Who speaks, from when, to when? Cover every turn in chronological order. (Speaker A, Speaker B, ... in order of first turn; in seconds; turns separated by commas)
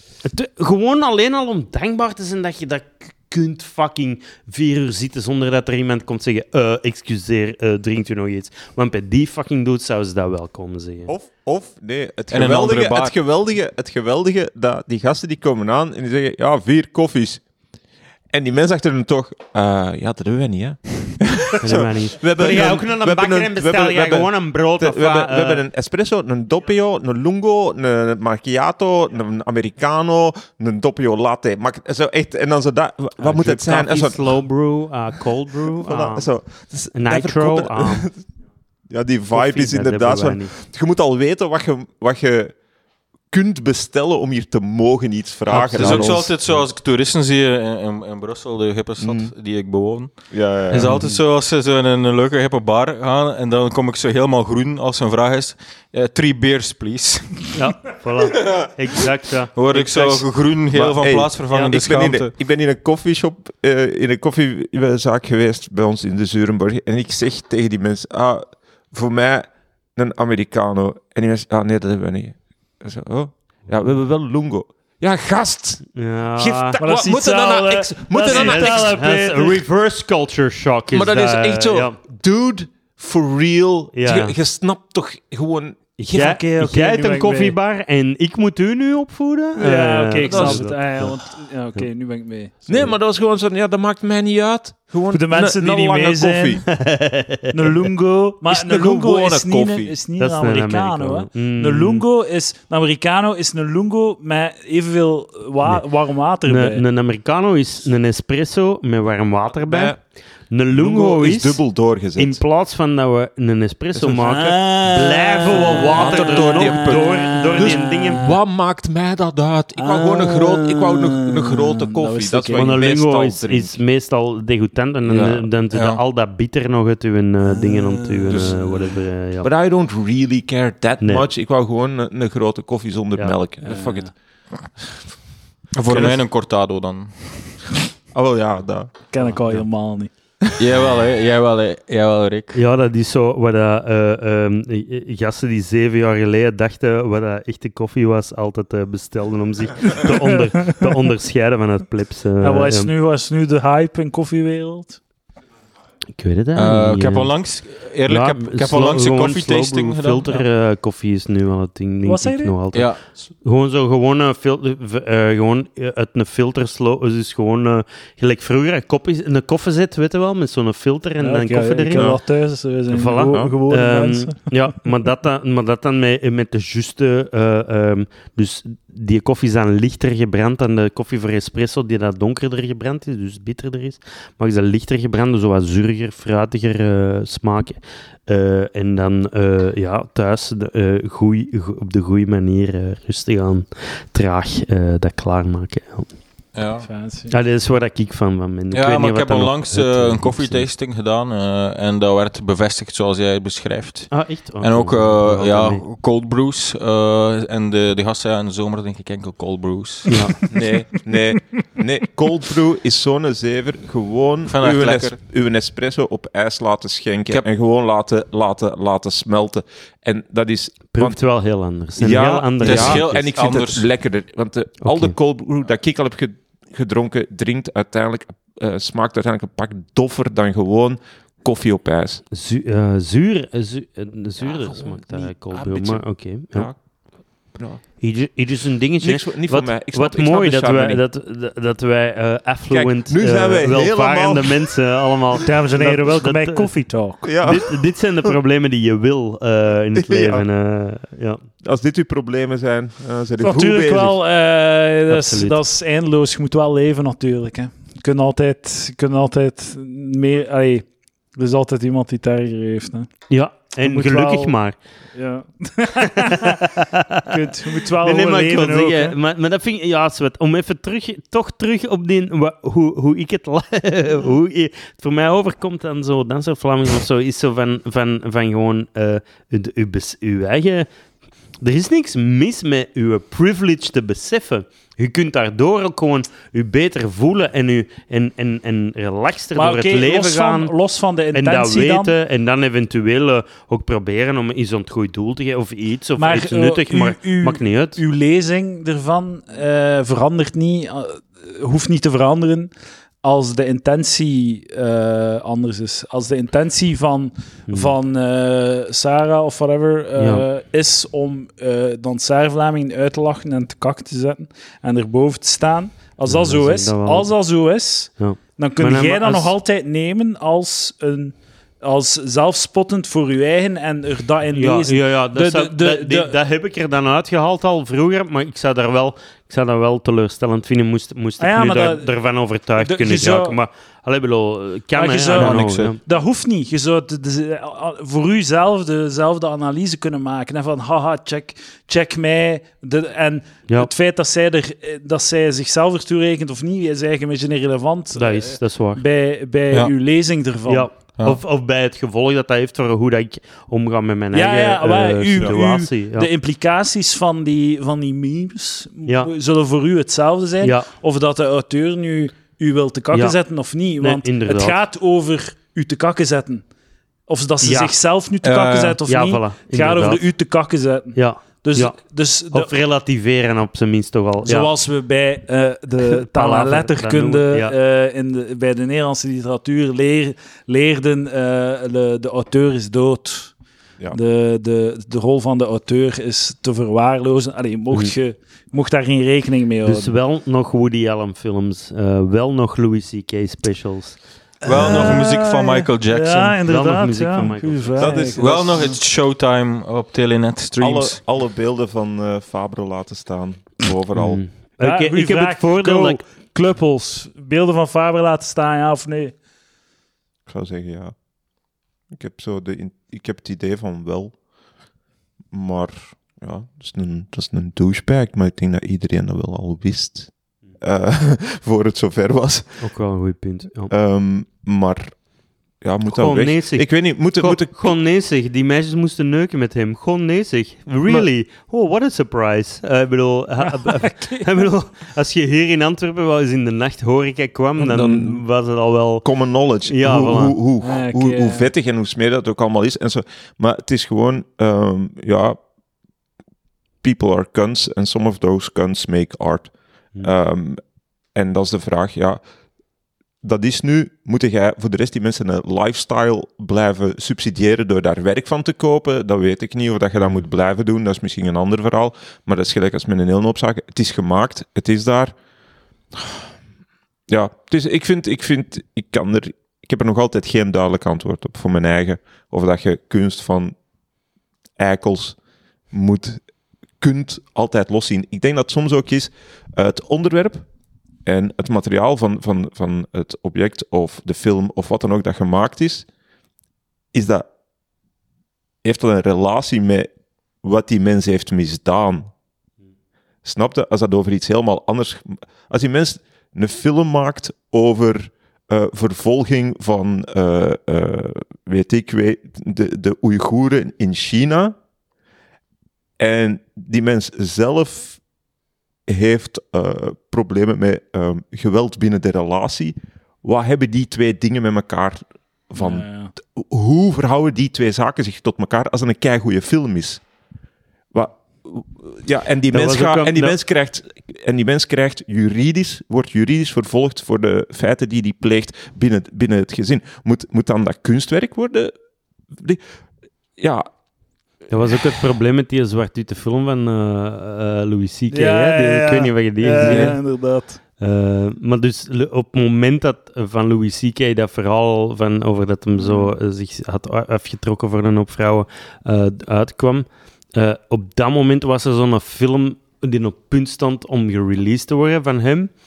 Speaker A: 0.2-11.1, Speaker B: 11.1-17.4, Speaker C: 12.3-13.1, Speaker B: 18.3-34.4, Speaker A: 21.6-25.6, Speaker A: 33.2-36.3, Speaker B: 35.8-38.3, Speaker A: 36.9-38.1, Speaker B: 38.9-42.5, Speaker A: 39.3-40.5, Speaker B: 43.3-46.5, Speaker A: 45.5-46.2, Speaker C: 45.5-57.6, Speaker B: 49.0-49.3, Speaker B: 50.3-51.2, Speaker A: 57.5-59.6, Speaker C: 59.5-62.3, Speaker B: 59.7-79.4, Speaker A: 75.9-76.8, Speaker D: 76.8-79.5, Speaker A: 78.2-82.0, Speaker B: 80.9-86.4, Speaker A: 83.9-84.3, Speaker A: 86.0-91.1, Speaker D: 86.2-87.5, Speaker D: 89.6-92.8, Speaker B: 90.2-90.8, Speaker B: 92.7-96.6, Speaker D: 95.1-96.6, Speaker A: 96.7-97.7, Speaker D: 97.5-106.8, Speaker B: 98.5-100.0, Speaker A: 100.2-102.0, Speaker A: 105.6-105.9, Speaker A: 106.4-118.3, Speaker B: 109.6-110.0, Speaker B: 110.7-112.4, Speaker B: 113.9-114.6, Speaker D: 114.2-118.3, Speaker B: 115.5-123.8, Speaker D: 119.8-122.8, Speaker A: 122.5-129.5, Speaker B: 125.0-125.5, Speaker C: 125.7-126.0, Speaker D: 127.5-128.6, Speaker B: 128.3-134.1, Speaker A: 131.0-131.3, Speaker D: 133.6-134.1, Speaker C: 135.7-137.7, Speaker B: 135.9-136.2, Speaker B: 138.1-138.9, Speaker D: 139.1-140.1, Speaker A: 139.2-139.6, Speaker C: 140.6-142.6, Speaker A: 142.5-152.9, Speaker D: 152.4-155.0, Speaker A: 156.2-157.4, Speaker C: 156.6-160.4, Speaker A: 158.1-172.2, Speaker D: 162.1-162.6, Speaker C: 162.7-163.0, Speaker D: 171.2-174.6, Speaker B: 171.9-172.2, Speaker A: 172.9-196.2, Speaker B: 173.3-173.6, Speaker C: 196.5-196.9, Speaker D: 196.8-197.3, Speaker A: 197.3-200.7, Speaker C: 198.7-210.5, Speaker A: 204.1-205.8, Speaker A: 210.1-210.3, Speaker B: 210.5-221.2, Speaker C: 214.5-215.2, Speaker A: 220.9-223.1, Speaker B: 222.0-232.2, Speaker C: 222.6-223.9, Speaker A: 224.8-225.1, Speaker A: 232.3-236.7, Speaker B: 234.4-236.8, Speaker B: 237.5-237.8, Speaker A: 238.0-251.4, Speaker B: 239.0-241.0, Speaker B: 242.7-244.8, Speaker D: 245.4-247.2, Speaker B: 247.2-247.8, Speaker B: 249.9-250.4, Speaker B: 251.6-254.2, Speaker D: 253.4-263.2, Speaker A: 255.1-255.6, Speaker A: 263.3-264.8, Speaker D: 263.8-264.5, Speaker D: 265.1-266.4, Speaker A: 266.2-280.9, Speaker D: 267.3-269.1, Speaker A: 281.6-290.7, Speaker D: 289.6-292.1, Speaker A: 291.3-298.0, Speaker D: 296.2-302.7, Speaker D: 303.2-326.3, Speaker A: 307.7-307.9, Speaker A: 310.2-310.4, Speaker A: 316.3-317.3, Speaker A: 318.2-319.5, Speaker A: 324.5-336.0, Speaker D: 331.4-332.1, Speaker D: 332.8-333.6, Speaker D: 334.9-350.9, Speaker A: 348.1-349.0, Speaker A: 350.7-356.3, Speaker D: 354.3-366.6, Speaker A: 360.6-360.9, Speaker A: 363.1-363.4, Speaker A: 363.9-364.8, Speaker D: 367.3-372.7, Speaker A: 367.6-367.9, Speaker C: 368.4-369.0, Speaker A: 369.1-370.2, Speaker A: 371.1-374.7, Speaker D: 374.4-383.6, Speaker A: 376.1-377.7, Speaker D: 384.1-390.1, Speaker A: 389.8-394.2, Speaker D: 394.6-398.8, Speaker C: 394.6-396.6, Speaker A: 394.8-395.1, Speaker A: 396.6-398.3, Speaker B: 398.0-399.0, Speaker C: 398.3-401.2, Speaker B: 400.8-404.4, Speaker A: 404.1-406.2, Speaker D: 404.8-409.4, Speaker B: 410.5-411.1, Speaker B: 412.1-414.4, Speaker B: 415.5-422.9, Speaker A: 422.8-423.9, Speaker B: 423.9-425.2, Speaker B: 425.8-427.9, Speaker A: 426.1-439.3, Speaker D: 433.8-434.7, Speaker B: 437.8-438.4, Speaker B: 439.2-445.6, Speaker A: 439.8-440.6, Speaker D: 440.1-441.7, Speaker B: 447.0-450.8, Speaker B: 451.3-452.4, Speaker B: 453.4-465.4, Speaker B: 467.3-473.8, Speaker B: 474.8-475.4, Speaker B: 475.9-476.4, Speaker B: 477.0-480.6, Speaker B: 481.3-486.1, Speaker B: 487.1-487.5, Speaker B: 488.8-490.1, Speaker B: 490.6-492.3, Speaker B: 493.4-504.8, Speaker B: 506.2-508.2, Speaker B: 509.1-520.2, Speaker D: 515.8-516.3, Speaker B: 521.1-531.9, Speaker A: 522.7-523.6, Speaker B: 532.5-532.8, Speaker B: 533.6-533.9, Speaker A: 534.7-540.3, Speaker D: 538.3-540.8, Speaker B: 539.8-540.1, Speaker A: 541.0-555.7, Speaker D: 546.0-546.4